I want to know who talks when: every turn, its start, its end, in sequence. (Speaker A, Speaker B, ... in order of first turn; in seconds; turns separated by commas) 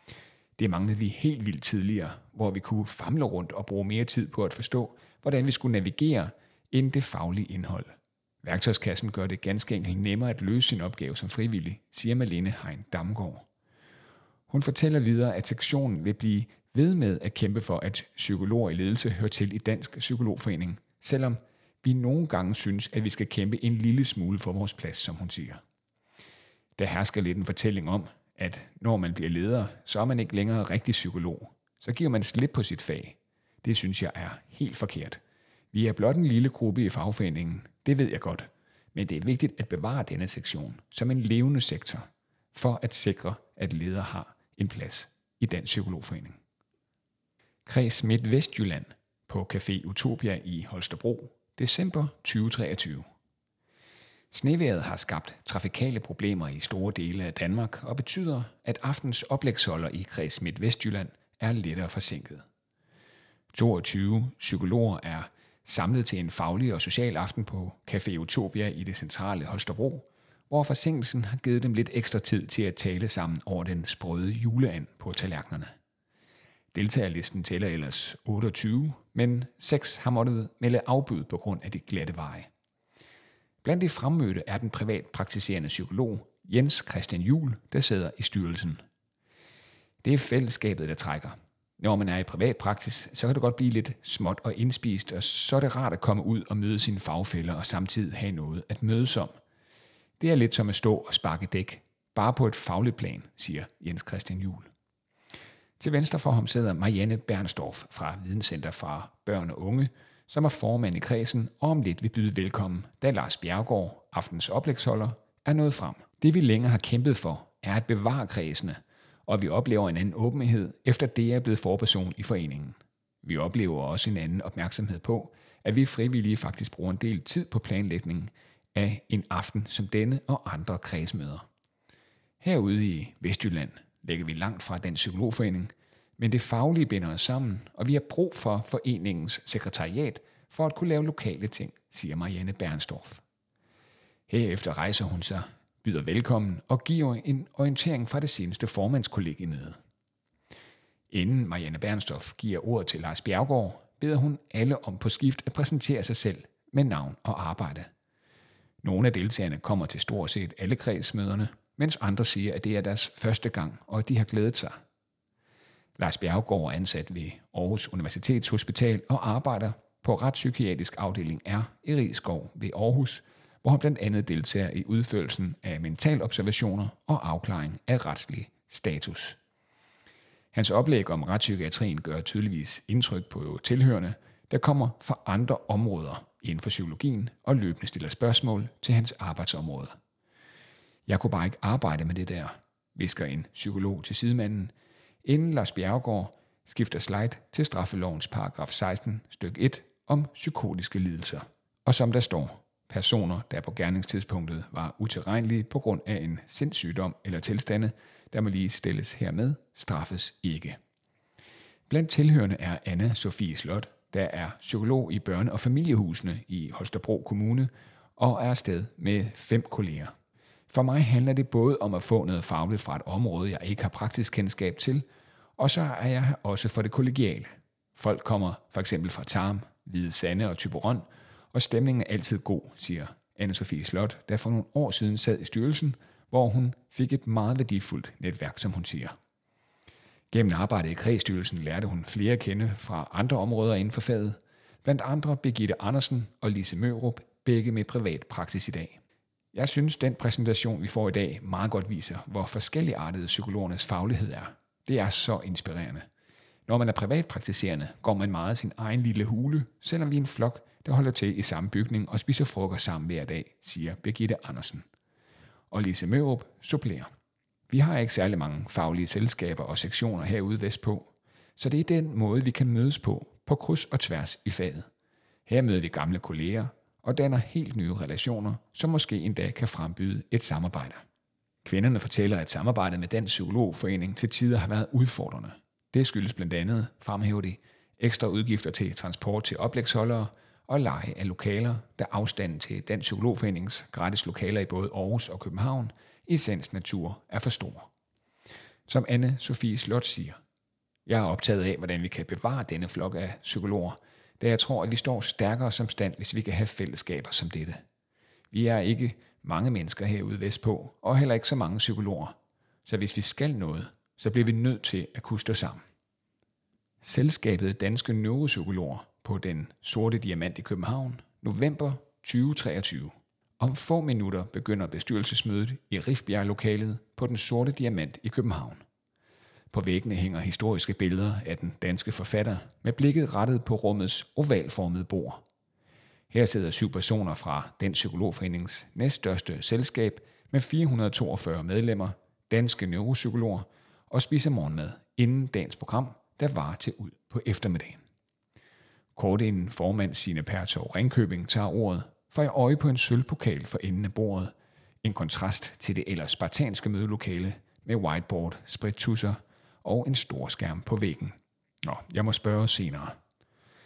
Speaker A: 0.6-7.9, Speaker A: 8.4-13.5, Speaker A: 14.5-25.6, Speaker A: 26.8-35.2, Speaker A: 35.7-46.4, Speaker A: 47.7-53.0, Speaker A: 54.3-62.4, Speaker A: 63.5-75.7, Speaker A: 76.7-82.5, Speaker A: 83.6-88.8, Speaker A: 90.0-99.3, Speaker A: 100.2-104.7, Speaker A: 105.8-131.4, Speaker A: 132.4-143.2, Speaker A: 144.3-149.8, Speaker A: 151.1-157.9, Speaker A: 158.8-164.8, Speaker A: 166.0-179.4, Speaker A: 180.5-189.9, Speaker A: 191.1-194.7, Speaker A: 195.2-210.8, Speaker A: 211.9-220.1, Speaker A: 220.7-225.1, Speaker A: 225.6-239.2, Speaker A: 240.3-249.0, Speaker A: 249.5-256.1, Speaker A: 256.7-264.9, Speaker A: 265.7-267.1, Speaker A: 267.7-274.9, Speaker A: 275.5-281.0, Speaker A: 281.6-297.9, Speaker A: 298.9-300.4, Speaker A: 301.1-307.8, Speaker A: 308.5-312.4, Speaker A: 312.9-315.8, Speaker A: 317.0-328.8, Speaker A: 329.7-335.4, Speaker A: 336.3-348.0, Speaker A: 349.2-363.2